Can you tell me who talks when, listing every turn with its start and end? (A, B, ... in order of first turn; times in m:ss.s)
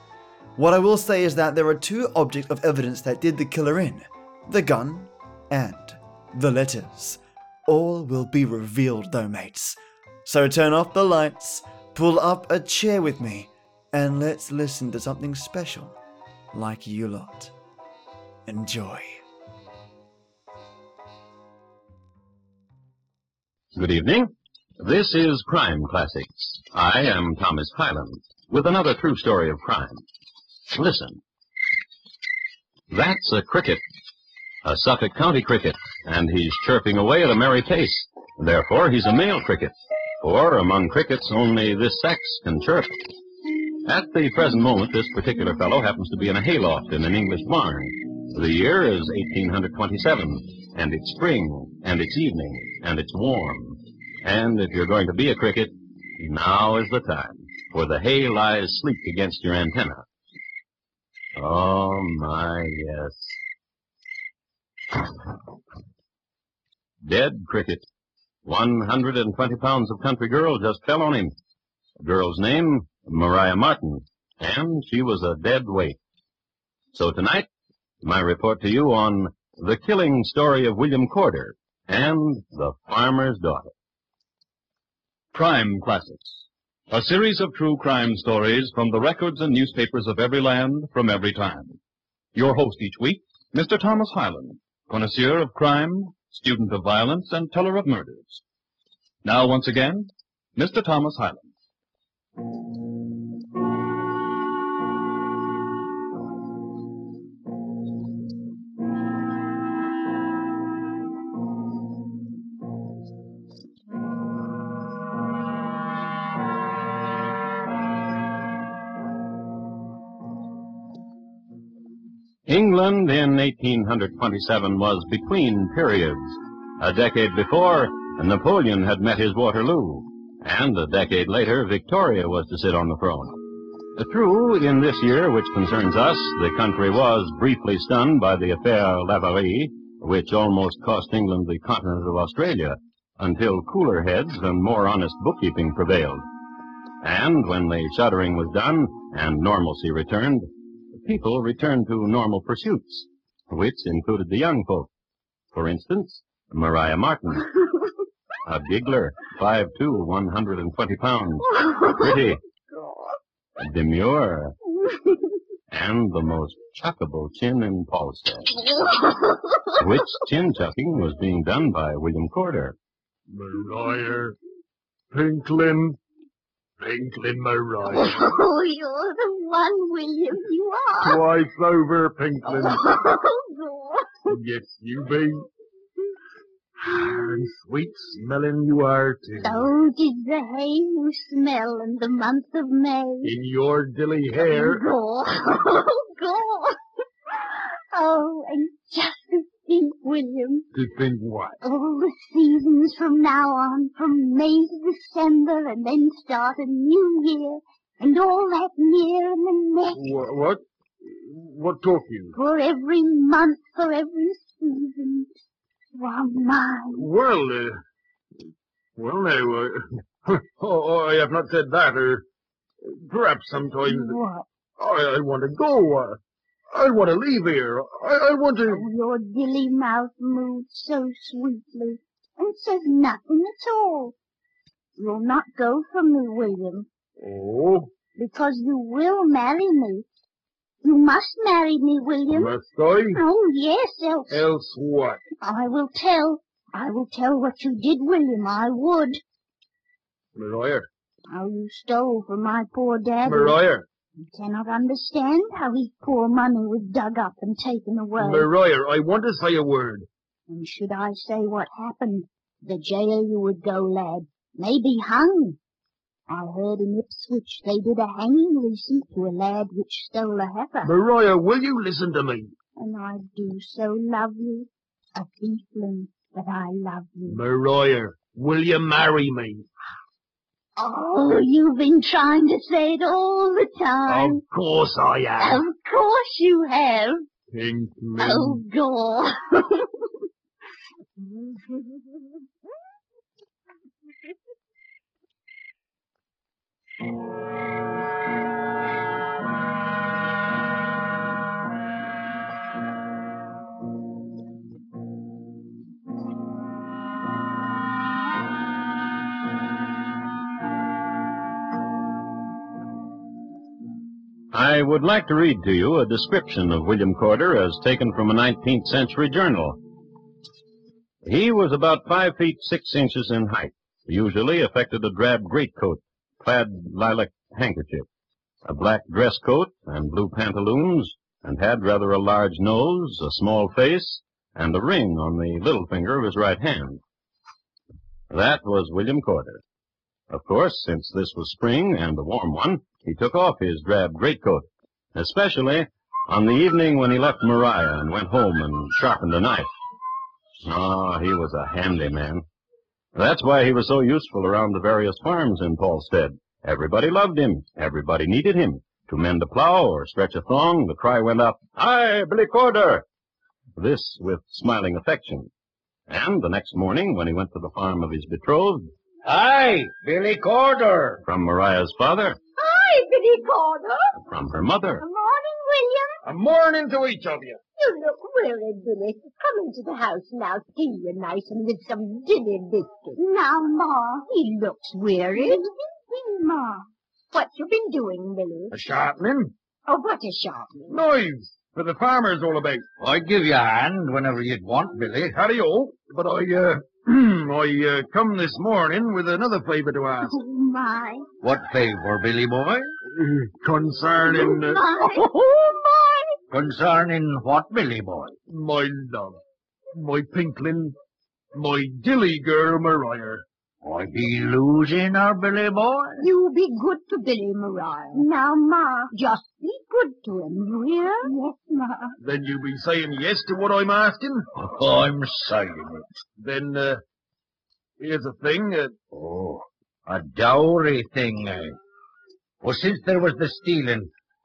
0:00.6-0:15.9 A
0:16.5-0:17.5 A
0:18.5-0:19.2 A
0:23.7-0:30.0 B
0:30.7-0:31.2 B
0:32.9-0:33.8 B
0:34.6-0:43.1 B
0:43.8-1:00.0 B
1:01.4-1:03.4 B
1:07.0-1:07.8 B
1:08.4-1:11.3 B
1:12.0-1:16.0 B
1:16.9-1:17.5 B
1:18.0-1:23.7 B
1:25.3-1:31.8 C
1:32.3-1:38.4 C
1:39.2-1:41.5 C
2:02.4-2:13.4 B
2:13.9-2:26.2 B
2:27.0-2:34.9 B
2:35.5-2:37.5 B
2:38.4-2:42.4 B
2:41.6-2:42.1 D
2:43.6-2:44.6 B
2:45.7-2:48.6 B
2:48.7-2:49.2 D
2:49.7-2:52.8 B
2:53.3-2:54.4 E
2:55.1-2:56.0 E
2:56.8-2:58.2 E
2:57.9-3:01.2 D
3:01.0-3:02.8 E
3:02.5-3:04.3 D
3:04.3-3:05.4 E
3:06.8-3:09.7 E
3:09.4-3:13.4 D
3:13.2-3:14.8 E
3:14.4-3:16.8 D
3:17.9-3:20.6 D
3:20.7-3:21.6 E
3:21.6-3:30.0 D
3:29.9-3:32.3 E
3:32.3-3:35.3 D
3:35.9-3:37.1 D
3:36.9-3:37.8 E
3:39.0-3:42.2 E
3:42.8-3:44.2 E
3:43.8-3:44.4 D
3:44.8-3:46.2 E
3:46.7-3:48.8 E
3:48.6-3:54.1 D
3:55.0-3:56.9 D
3:57.2-3:57.9 E
3:58.1-4:00.1 D
4:00.8-4:02.6 D
4:02.3-4:03.2 E
4:03.1-4:04.4 D
4:04.3-4:05.2 E
4:05.4-4:09.2 D
4:10.3-4:10.9 E
4:11.3-4:13.6 D
4:13.2-4:13.8 E
4:14.2-4:18.5 D
4:18.2-4:20.1 E
4:20.5-4:25.6 D
4:26.3-4:30.9 D
4:30.8-4:32.5 E
4:32.8-4:37.4 D
4:37.2-4:39.6 E
4:40.8-4:44.4 D
4:44.1-4:45.6 E
4:45.4-4:47.2 D
4:47.5-4:48.6 E
4:48.2-4:49.9 D
5:14.5-5:19.8 B
5:21.2-5:28.1 B
5:28.6-5:37.0 B
5:38.3-5:39.6 B
5:40.3-5:49.7 B
5:50.6-5:52.4 B
5:53.1-6:03.0 B
6:03.8-6:05.5 B
6:06.1-6:08.9 B
6:09.2-6:11.2 F
6:11.2-6:12.4 B
6:12.6-6:14.1 G
6:14.2-6:15.0 B
6:15.0-6:16.2 D
6:16.2-6:17.6 E
6:17.8-6:23.2 G
6:23.2-6:24.3 D
6:24.3-6:25.6 G
6:25.4-6:26.8 D
6:27.3-6:28.8 G
6:28.7-6:29.5 E
6:29.9-6:30.9 G
6:30.9-6:32.8 E
6:33.0-6:35.4 F
6:35.3-6:40.4 E
6:40.2-6:41.2 D
6:41.4-6:42.9 F
6:43.1-6:44.8 E
6:44.2-6:45.3 D
6:45.0-6:46.2 G
6:46.5-6:48.3 F
6:48.5-6:49.4 E
6:49.9-6:50.9 E
6:51.5-6:53.4 E
6:53.8-6:56.2 F
6:56.2-6:58.2 G
6:58.1-6:59.1 D
6:59.1-7:01.3 G
7:01.2-7:02.1 D
7:02.2-7:04.5 E
7:04.6-7:06.0 F
7:06.4-7:07.0 E
7:08.0-7:08.9 E
7:09.1-7:11.8 F
7:12.6-7:14.1 F